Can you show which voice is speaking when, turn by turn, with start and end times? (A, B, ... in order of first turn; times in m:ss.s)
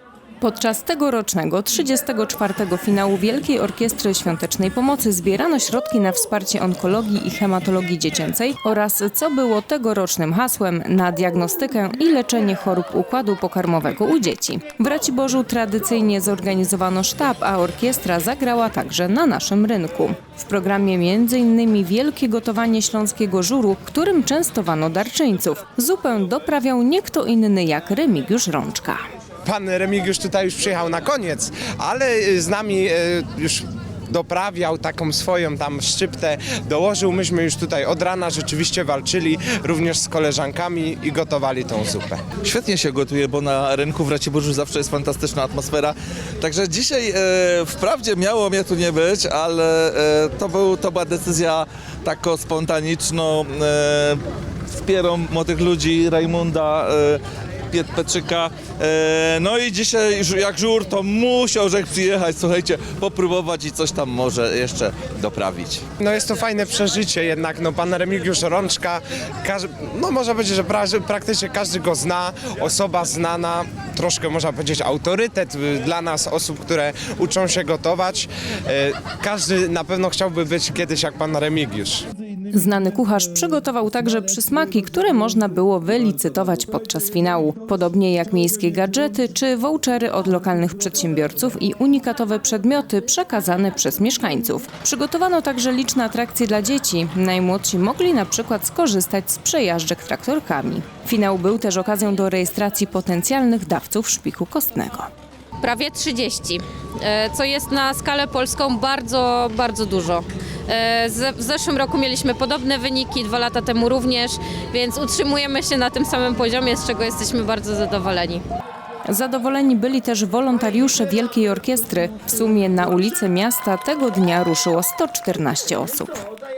0:00.4-0:29.0 A
0:29.4-0:42.2 B
0:42.4-1:05.8 C
1:06.0-1:22.0 B
1:22.5-1:45.1 A
1:45.6-1:58.4 D
1:59.1-2:06.2 A